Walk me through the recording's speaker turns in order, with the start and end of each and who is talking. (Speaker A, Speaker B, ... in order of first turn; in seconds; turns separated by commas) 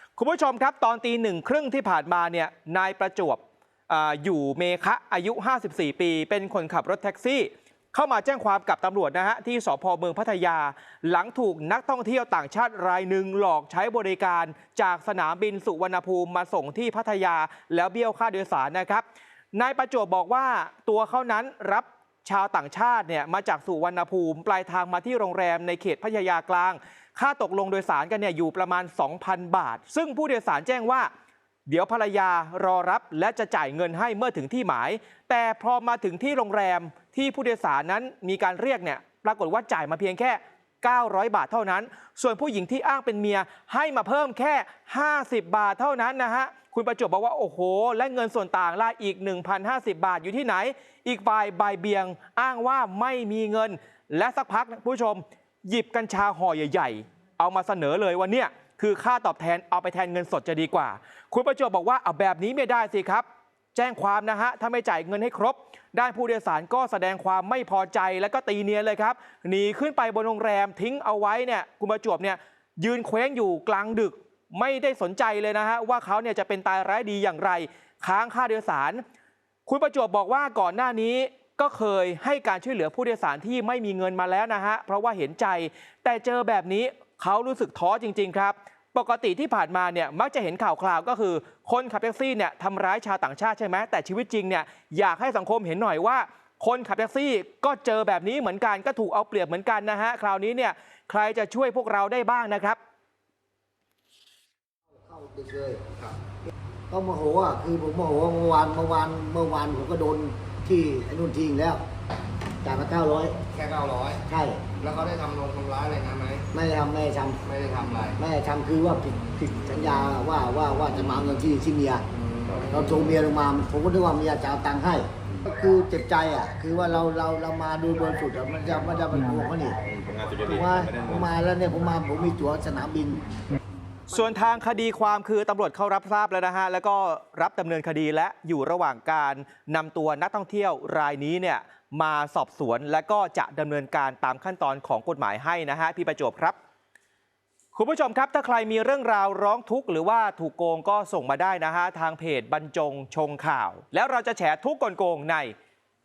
Speaker A: 0.1-31.1, Speaker A: 31.7-79.0, Speaker A: 79.7-102.8, Speaker B: 104.9-105.9, Speaker B: 106.9-111.8, Speaker B: 112.6-113.4, Speaker C: 113.5-114.2, Speaker B: 114.3-114.7, Speaker C: 114.8-116.5, Speaker B: 116.5-117.4, Speaker C: 117.5-118.2, Speaker B: 118.2-122.0, Speaker B: 122.7-129.8, Speaker B: 130.4-133.2, Speaker A: 134.1-146.6, Speaker A: 147.8-155.5